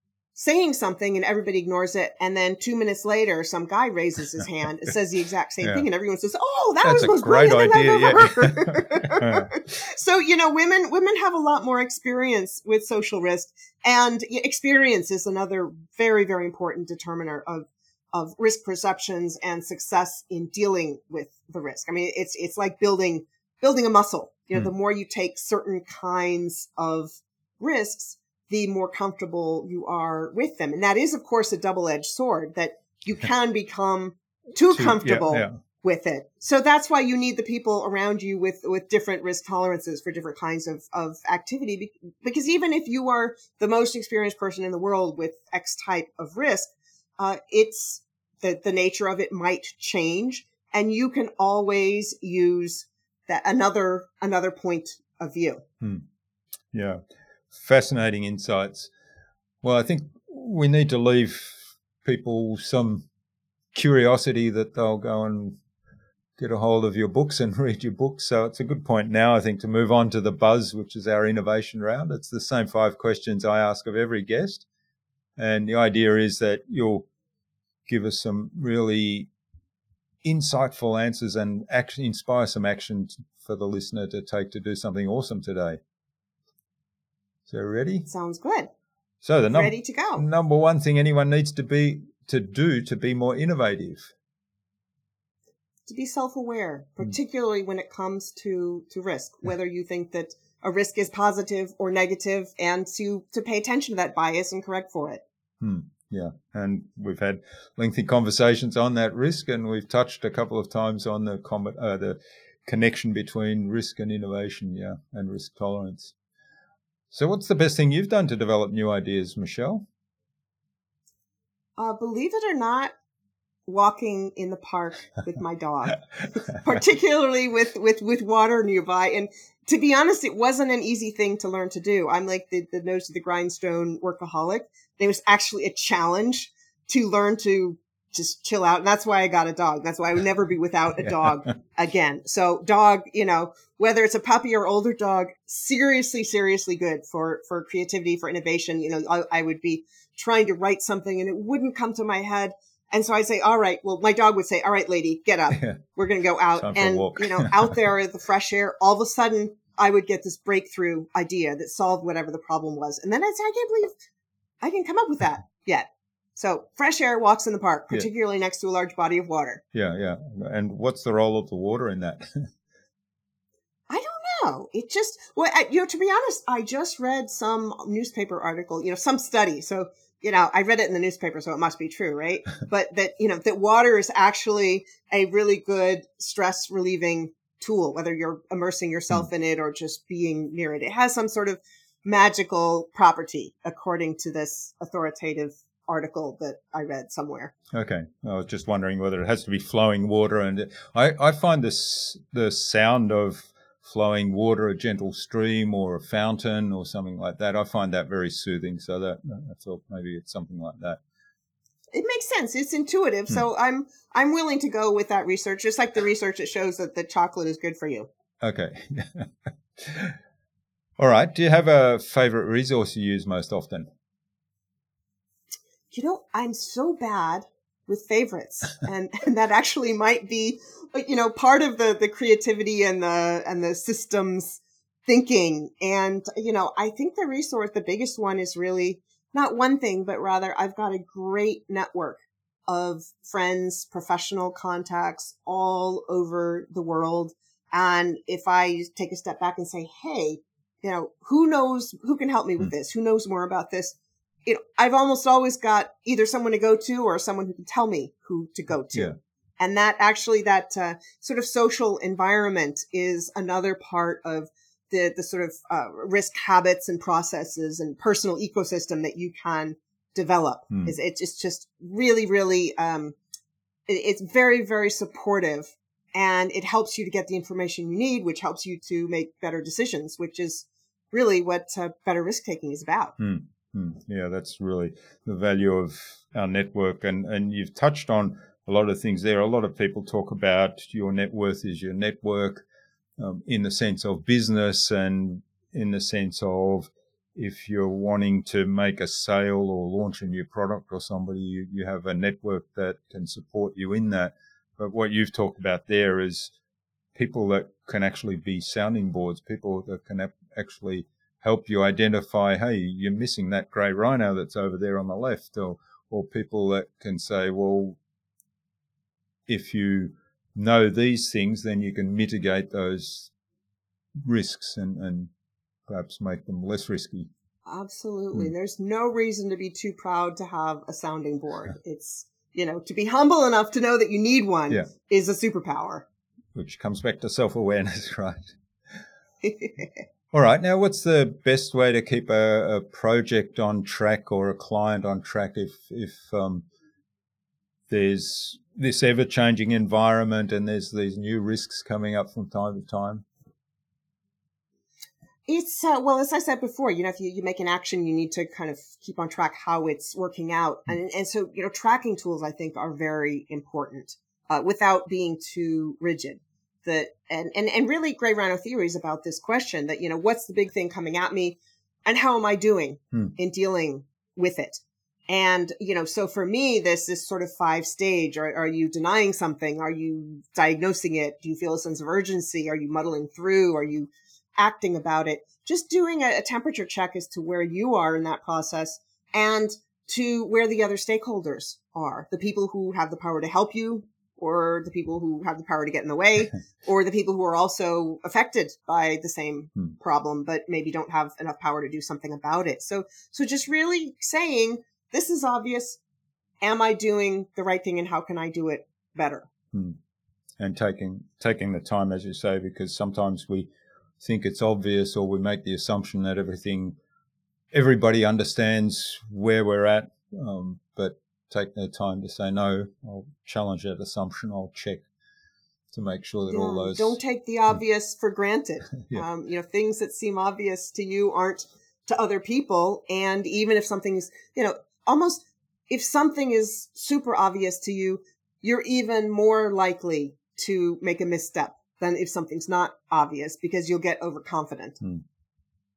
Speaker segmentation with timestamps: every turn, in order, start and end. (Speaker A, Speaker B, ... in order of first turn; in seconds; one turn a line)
Speaker A: 0.3-55.6
Speaker B: 6.8-9.5
Speaker B: 34.7-35.6
Speaker B: 56.7-57.0
Speaker B: 57.5-58.9
Speaker B: 59.6-63.1
Speaker B: 63.7-65.6
Speaker B: 66.4-74.7
Speaker B: 75.4-77.1
Speaker B: 77.9-79.3
Speaker B: 80.2-85.8
Speaker B: 87.5-88.1
Speaker A: 88.1-88.7
Speaker B: 89.2-94.1
Speaker A: 89.5-90.2
Speaker A: 95.9-105.2
Speaker B: 105.6-116.1
Speaker B: 117.1-119.8
Speaker A: 121.8-122.9
Speaker A: 123.7-163.9
Speaker B: 156.6-157.7
Speaker A: 164.6-169.6
Speaker B: 169.7-172.5
Speaker A: 173.9-197.5
Speaker B: 197.7-211.0
Speaker A: 211.9-218.1
Speaker B: 218.4-220.2
Speaker B: 221.0-223.9
Speaker A: 225.9-273.2
Speaker A: 273.9-283.1
Speaker B: 283.2-292.6
Speaker B: 293.2-306.5
Speaker B: 307.1-318.0
Speaker B: 319.5-323.3
Speaker B: 324.2-325.3
Speaker B: 325.9-327.3
Speaker A: 327.7-336.1
Speaker B: 336.6-338.5
Speaker A: 339.4-340.0
Speaker B: 340.3-346.7
Speaker B: 347.9-353.2
Speaker A: 355.5-406.0
Speaker A: 406.6-409.5
Speaker B: 409.7-410.0
Speaker B: 410.6-413.7
Speaker B: 414.2-417.0
Speaker B: 417.7-425.1
Speaker B: 425.9-427.2
Speaker A: 426.5-445.0